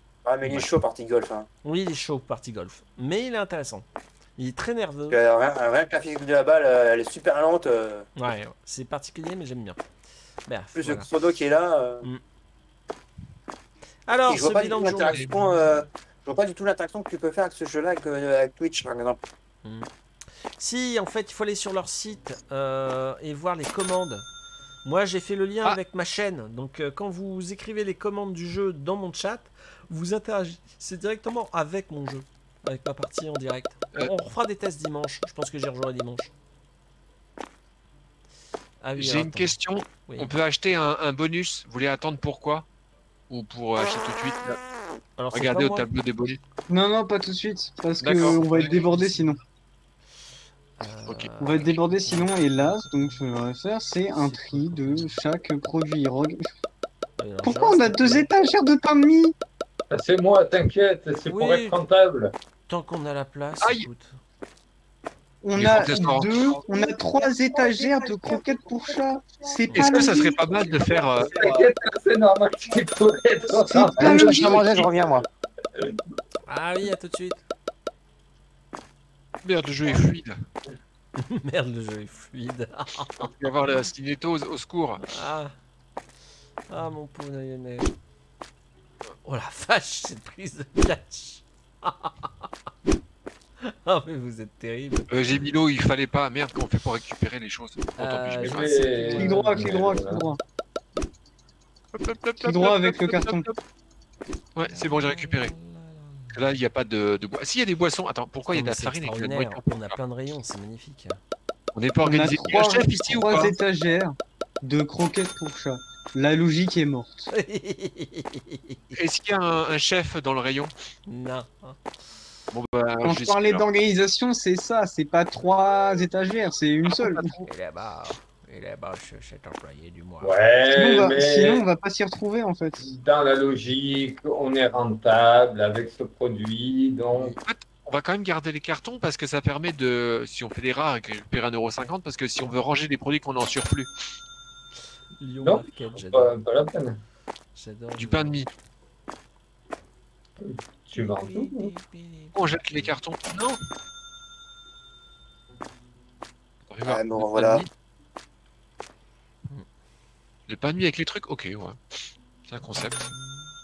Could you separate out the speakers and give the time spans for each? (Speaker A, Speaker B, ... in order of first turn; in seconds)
Speaker A: 0.2-1.5, 5.1-8.1, 10.8-12.1, 14.3-19.2, 67.5-68.4, 69.9-71.6, 73.8-75.2, 156.8-157.6
Speaker B: 1.6-3.9, 4.4-5.2, 8.2-9.8, 10.5-11.1, 14.1-15.3, 19.6-19.9, 20.6-24.3, 24.8-36.3, 38.8-39.5, 40.1-40.3, 45.2-45.9, 48.5-49.4, 50.8-53.2, 54.1-55.1, 57.2-58.3, 61.3-61.8, 62.7-64.2, 76.5-77.4, 81.2-83.1, 85.0-85.5, 86.7-87.9, 89.2-92.5, 93.6-95.1, 98.0-99.8, 104.7-106.4, 108.5-111.2, 117.3-119.0, 121.1-121.8, 127.5-130.4, 137.1-137.4, 145.2-146.3, 147.6-148.5, 150.9-152.9, 162.6-163.5
Speaker C: 15.1-15.5, 39.0-42.7, 43.3-44.6, 45.3-46.4, 48.0-48.8, 51.1-51.3, 63.6-63.9, 65.5-66.6, 69.7-71.4, 79.4-80.4, 83.2-85.0, 95.1-98.8, 101.9-103.6, 104.5-105.5, 106.3-110.0, 111.8-113.5, 119.0-120.7, 122.5-123.6, 126.9-127.4, 137.4-143.9, 148.0-148.5, 152.3-153.6, 156.7-157.7, 160.5-161.8, 162.5-163.1
Speaker D: 46.7-49.4, 51.4-56.5, 57.4-59.4, 65.4-70.4, 73.8-74.7, 99.2-100.4, 102.4-103.5, 112.0-117.3, 123.0-127.4, 130.7-132.8
Speaker E: 59.9-62.3, 71.3-74.8, 98.4-100.2, 130.2-131.6, 132.8-137.3, 145.4-147.0, 150.4-151.7